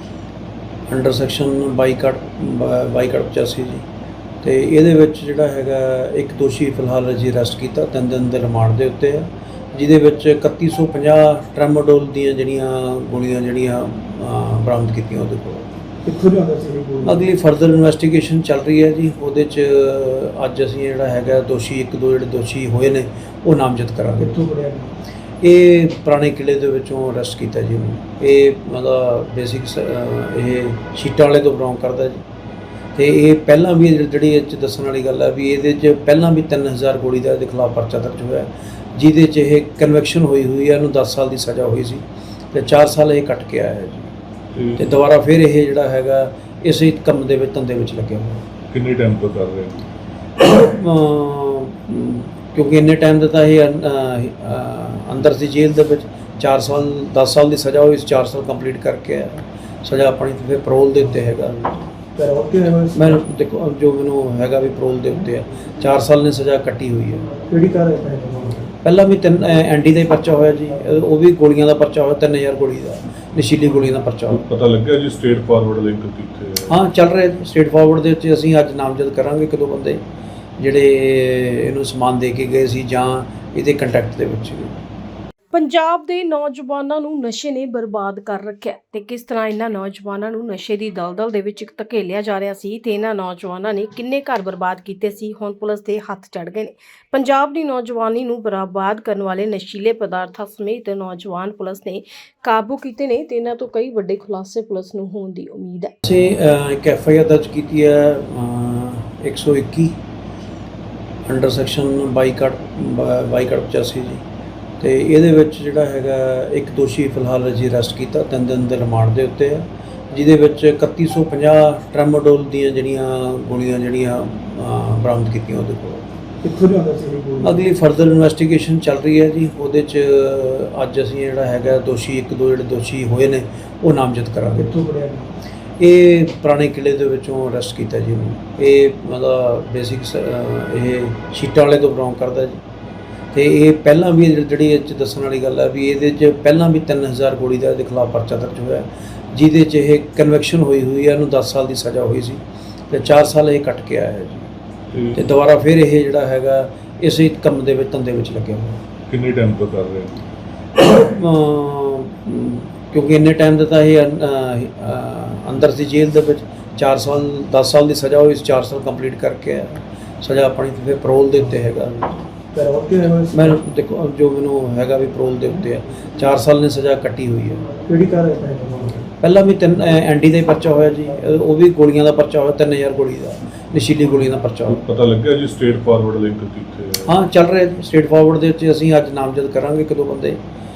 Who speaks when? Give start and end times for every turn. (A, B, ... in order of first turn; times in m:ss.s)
0:00.9-0:03.8 A
0:04.4-0:15.7 A
0:16.0-0:17.3 B
0:17.0-0:24.4 A
0:24.2-0:24.9 B
0:25.4-0:32.2 A
0:32.9-0:44.1 A
0:44.5-0:44.9 C
0:44.8-0:48.4 A
0:48.7-0:49.8 C
0:50.4-1:01.8 A
1:02.1-1:03.2 B
1:02.9-1:07.4 A
1:07.4-1:08.7 B
1:08.8-1:14.4 A
1:14.3-1:16.7 C
1:16.6-1:20.0 A
1:20.6-1:24.8 A
1:25.5-1:45.9 D
1:46.0-1:49.9 A
1:51.2-1:54.2 A
1:54.8-2:06.0 A
2:06.4-2:07.6 B
2:07.4-2:14.8 A
2:14.6-2:15.3 B
2:15.8-2:22.6 A
2:23.3-2:34.5 A
2:34.9-2:35.2 C
2:35.1-2:38.8 A
2:39.1-2:40.2 C
2:40.8-2:52.2 A
2:52.5-2:53.6 B
2:53.3-2:57.7 A
2:57.7-2:59.0 B
2:59.1-3:04.8 A
3:04.6-3:07.1 C
3:07.0-3:10.4 A